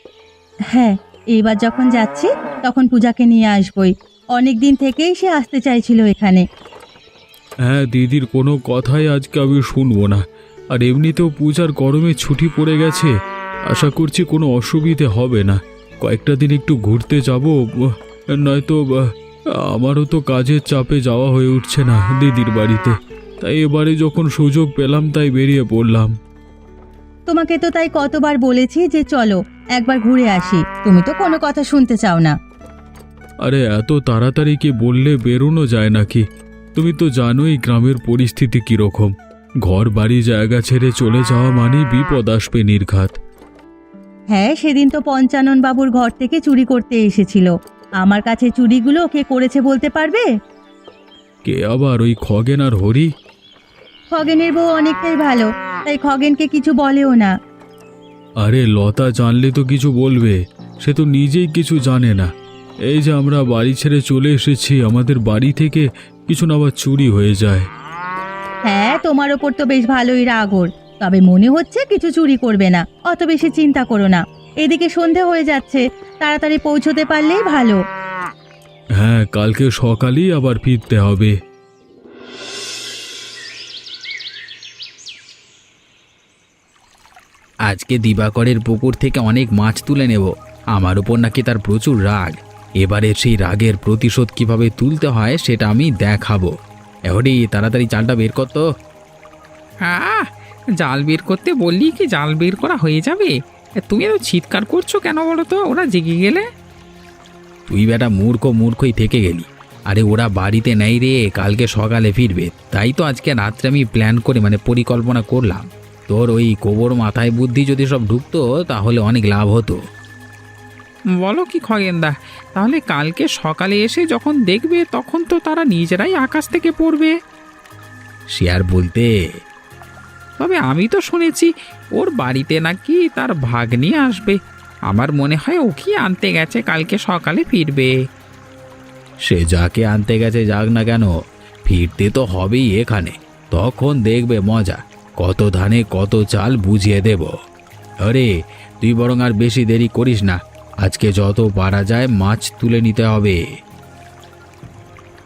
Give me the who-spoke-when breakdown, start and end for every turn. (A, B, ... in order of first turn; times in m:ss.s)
0:00.7-0:06.4 A
0:07.6-0:13.1 B
0:13.7-0:26.1 B
0:27.3-0:32.4 A
0:33.4-0:39.1 B
0:39.6-0:43.2 B
0:44.3-0:47.5 A
0:48.0-0:50.2 A
0:51.4-0:53.1 B
0:54.1-0:57.3 A
0:58.4-1:02.3 B
1:02.9-1:07.7 B
1:08.7-1:17.8 A
1:19.0-1:21.4 B
1:27.6-1:36.5 C
1:37.1-1:38.6 C
1:39.8-1:46.4 D
1:47.7-1:59.8 C
2:01.2-2:07.2 D
2:08.3-2:09.1 C
2:10.4-2:14.4 D
2:14.9-2:17.9 D
2:19.2-2:21.1 C
2:21.6-2:27.3 C
2:28.0-2:28.3 C
2:28.8-2:33.4 C